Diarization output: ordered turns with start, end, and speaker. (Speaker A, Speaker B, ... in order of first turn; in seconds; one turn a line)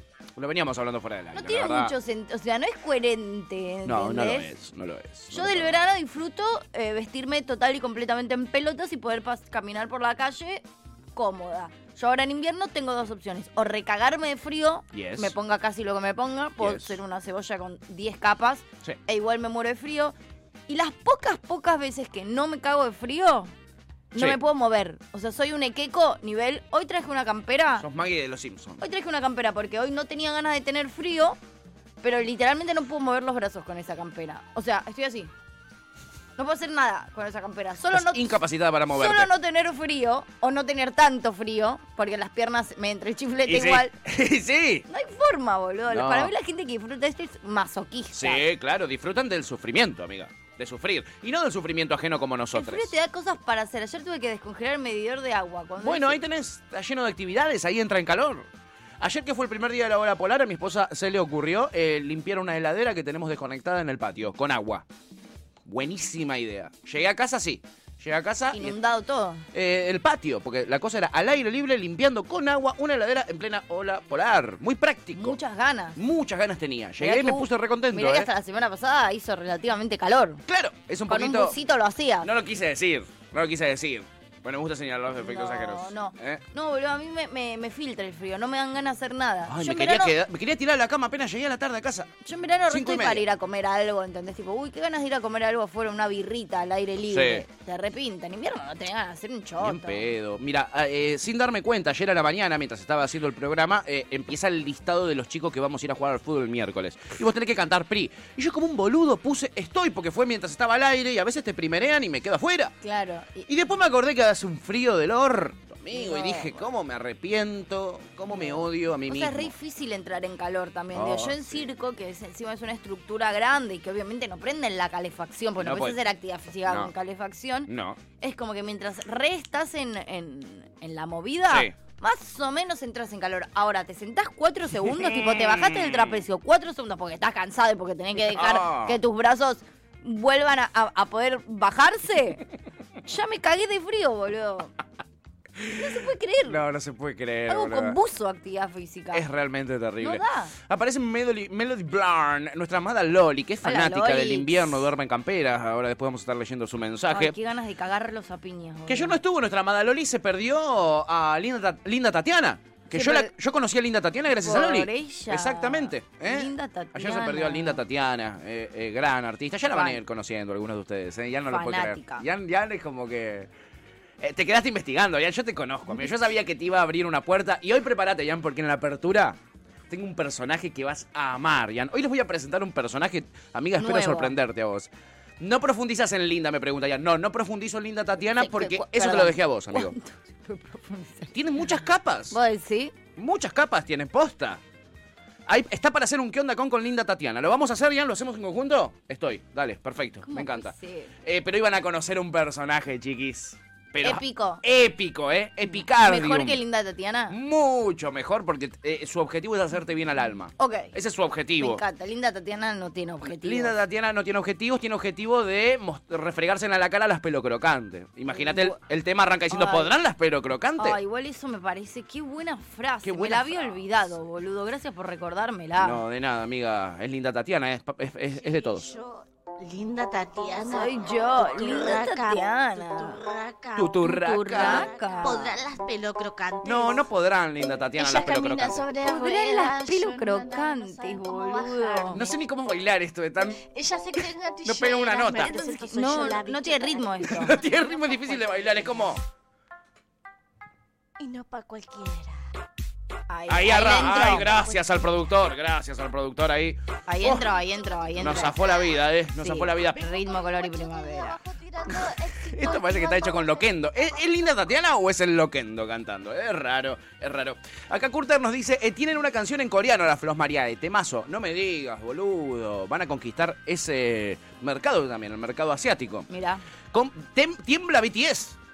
Speaker A: 0.4-1.9
Speaker B: 1.3-4.5
Speaker A: 3.9-5.7
Speaker B: 5.3-10.6
Speaker B: 11.2-20.1
Speaker A: 14.9-15.3
Speaker A: 16.6-17.0
Speaker B: 20.7-23.5
Speaker B: 24.1-27.9
Speaker A: 27.8-28.8
Speaker B: 28.8-31.4
Speaker B: 32.0-35.3
Speaker B: 36.4-38.3
Speaker A: 37.9-39.3
Speaker B: 38.9-43.9
Speaker A: 43.5-44.9
Speaker B: 44.9-48.4
Speaker A: 45.9-46.3
Speaker A: 48.1-52.9
Speaker B: 52.5-56.2
Speaker A: 55.8-58.5
Speaker A: 59.0-64.9
Speaker A: 65.7-68.8
Speaker B: 68.5-69.5
Speaker A: 69.5-75.4
Speaker B: 75.2-76.0
Speaker A: 76.0-78.3
Speaker B: 77.0-80.4
Speaker A: 80.5-81.6
Speaker B: 81.1-82.3
Speaker A: 82.2-86.4
Speaker B: 85.2-90.2
Speaker A: 89.5-92.1
Speaker B: 92.2-100.1
Speaker A: 92.7-93.2
Speaker A: 97.1-97.5
Speaker A: 99.6-112.8
Speaker B: 112.8-113.5
Speaker A: 113.5-119.5
Speaker B: 115.9-116.7
Speaker B: 118.3-142.4
Speaker A: 120.9-121.6
Speaker A: 125.6-126.0
Speaker A: 126.7-126.9
Speaker A: 127.7-128.0
Speaker A: 131.5-131.8
Speaker A: 134.8-136.2
Speaker A: 138.2-139.0
Speaker B: 143.1-144.7
Speaker A: 145.6-145.9
Speaker B: 145.7-146.6
Speaker A: 146.5-148.0
Speaker B: 147.5-149.2
Speaker A: 149.1-157.3
Speaker B: 150.0-150.5
Speaker B: 153.6-154.8
Speaker B: 157.1-159.2
Speaker A: 158.9-173.5
Speaker B: 162.9-163.3
Speaker B: 164.4-167.8
Speaker B: 169.7-170.0
Speaker B: 171.5-172.3
Speaker A: 174.2-179.4
Speaker B: 175.9-176.2
Speaker A: 179.9-189.9
Speaker B: 183.8-184.3
Speaker B: 188.4-191.3
Speaker A: 191.3-192.4
Speaker B: 192.3-192.9
Speaker A: 193.2-194.6
Speaker A: 195.5-206.6
Speaker B: 200.2-201.1
Speaker B: 204.0-204.6
Speaker B: 205.7-207.4
Speaker A: 207.3-211.8
Speaker B: 210.6-210.9
Speaker B: 211.6-213.8
Speaker A: 213.2-221.0
Speaker B: 218.3-218.8
Speaker B: 219.5-219.9
Speaker B: 220.8-226.0
Speaker A: 223.0-223.8
Speaker A: 225.8-228.9
Speaker C: 228.4-237.1
Speaker B: 230.6-233.2
Speaker A: 233.8-234.9
Speaker B: 234.0-235.5
Speaker A: 236.6-238.9
Speaker C: 238.0-242.4
Speaker B: 239.0-242.2
Speaker A: 242.1-243.6
Speaker C: 243.6-249.1
Speaker A: 244.6-245.6
Speaker B: 245.5-247.6
Speaker A: 247.2-249.2
Speaker C: 251.2-252.4
Speaker B: 253.3-254.6
Speaker A: 253.5-257.5
Speaker C: 254.1-254.9
Speaker B: 257.1-258.6
Speaker C: 257.7-259.0
Speaker A: 258.2-260.0
Speaker B: 259.4-261.4
Speaker C: 260.0-264.2
Speaker A: 261.9-276.3
Speaker B: 276.3-276.6
Speaker A: 276.9-278.6